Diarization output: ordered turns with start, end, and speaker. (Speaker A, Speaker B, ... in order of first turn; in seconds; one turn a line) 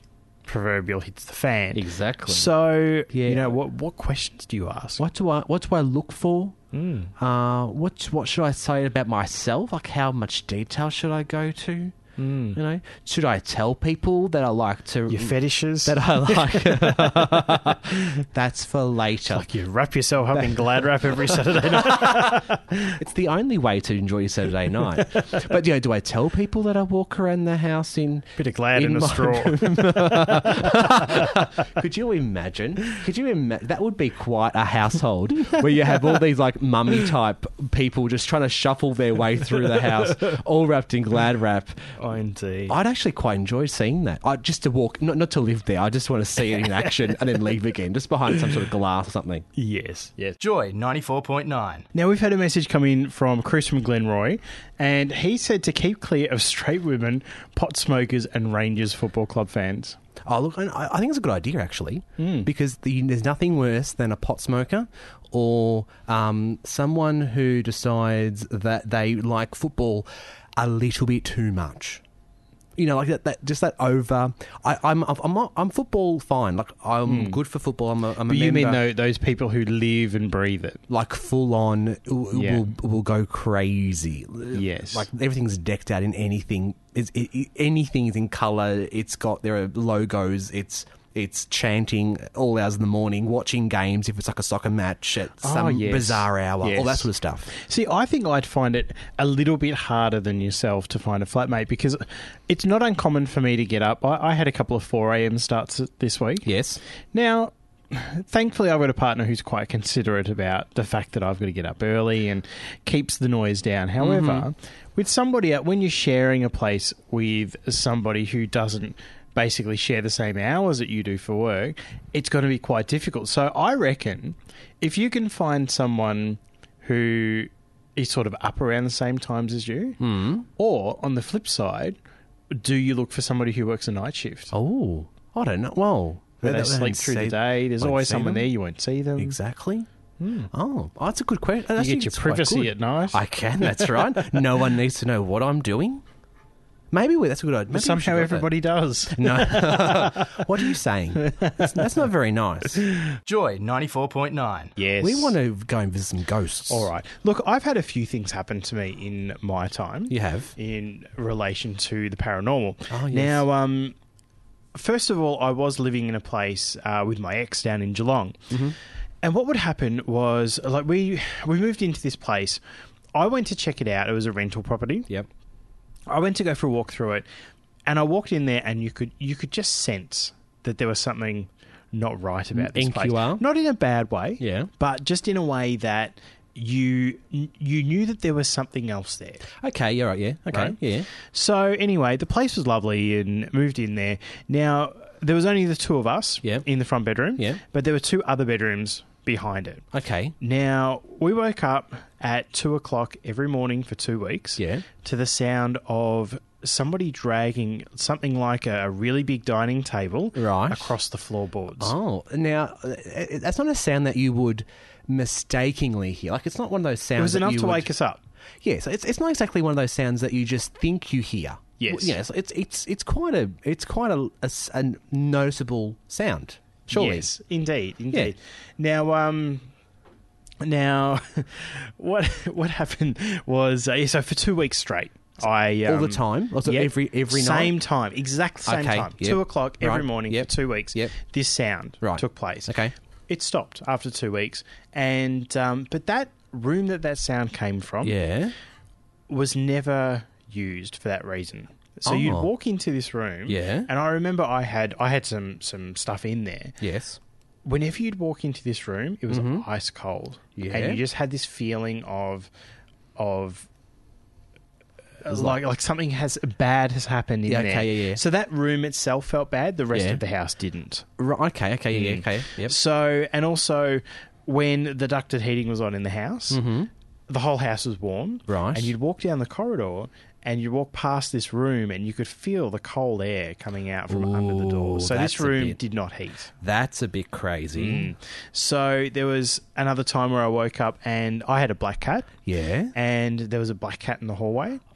Speaker A: 0.5-5.0
Speaker B: 1.7-2.5
Speaker B: 3.1-3.5
Speaker B: 5.0-6.5
Speaker A: 6.7-7.1
Speaker B: 7.2-12.0
Speaker A: 12.2-12.6
Speaker B: 12.5-19.5
Speaker A: 15.1-17.8
Speaker A: 19.3-22.8
Speaker B: 21.7-41.9
Speaker A: 28.4-31.5
Speaker A: 42.0-42.7
Speaker B: 42.7-49.5
Speaker A: 49.5-50.4
Speaker C: 50.4-51.9
Speaker A: 51.9-60.0
Speaker B: 60.2-72.0
Speaker A: 62.2-62.5
Speaker B: 72.8-78.8
Speaker A: 77.0-77.4
Speaker A: 78.2-80.8
Speaker B: 80.9-97.5
Speaker A: 82.3-82.6
Speaker A: 84.5-85.1
Speaker A: 95.4-106.5
Speaker B: 106.4-106.8
Speaker A: 107.1-130.0
Speaker B: 114.0-114.5
Speaker B: 130.0-130.4
Speaker A: 130.5-132.0
Speaker A: 132.5-134.5
Speaker B: 134.5-138.5
Speaker A: 136.4-139.3
Speaker B: 139.2-139.9
Speaker A: 140.2-140.5
Speaker B: 140.5-146.0
Speaker A: 141.8-143.9
Speaker B: 146.9-148.5
Speaker A: 147.7-150.7
Speaker B: 149.1-152.8
Speaker A: 151.2-151.9
Speaker A: 152.8-153.1
Speaker C: 153.2-154.7
Speaker A: 154.8-155.4
Speaker B: 155.0-156.9
Speaker A: 156.7-163.9
Speaker B: 160.1-160.5
Speaker B: 162.9-163.4
Speaker A: 164.7-168.5
Speaker B: 168.5-168.8
Speaker A: 169.2-172.6
Speaker A: 173.1-175.1
Speaker A: 176.1-177.2
Speaker A: 177.8-189.5
Speaker B: 182.5-183.4
Speaker B: 184.4-184.7
Speaker B: 189.6-191.1
Speaker A: 190.5-199.8
Speaker B: 199.9-200.3
Speaker A: 200.4-211.9
Speaker B: 204.6-204.8
Speaker B: 210.3-210.9
Speaker B: 211.8-217.9
Speaker A: 217.2-218.2
Speaker B: 218.6-227.3
Speaker A: 221.8-222.2
Speaker A: 226.9-229.7
Speaker A: 230.6-242.8
Speaker B: 235.8-237.7
Speaker B: 238.6-241.1
Speaker B: 242.0-242.9
Speaker A: 243.3-248.1
Speaker B: 248.0-248.5
Speaker A: 249.3-256.8
Speaker B: 252.1-252.5
Speaker B: 253.5-253.9
Speaker B: 256.8-257.2
Speaker A: 257.6-262.5
Speaker B: 259.3-259.6
Speaker B: 260.6-261.0
Speaker A: 263.1-263.7
Speaker A: 265.2-271.1
Speaker B: 265.3-265.6
Speaker B: 267.5-268.2
Speaker B: 269.9-270.2
Speaker B: 271.2-272.7
Speaker A: 271.9-276.6
Speaker B: 276.5-276.9
Speaker A: 277.3-286.5
Speaker B: 278.5-278.9
Speaker B: 284.1-285.8
Speaker B: 286.6-288.1
Speaker A: 287.7-292.4
Speaker B: 292.4-292.9
Speaker A: 292.9-294.8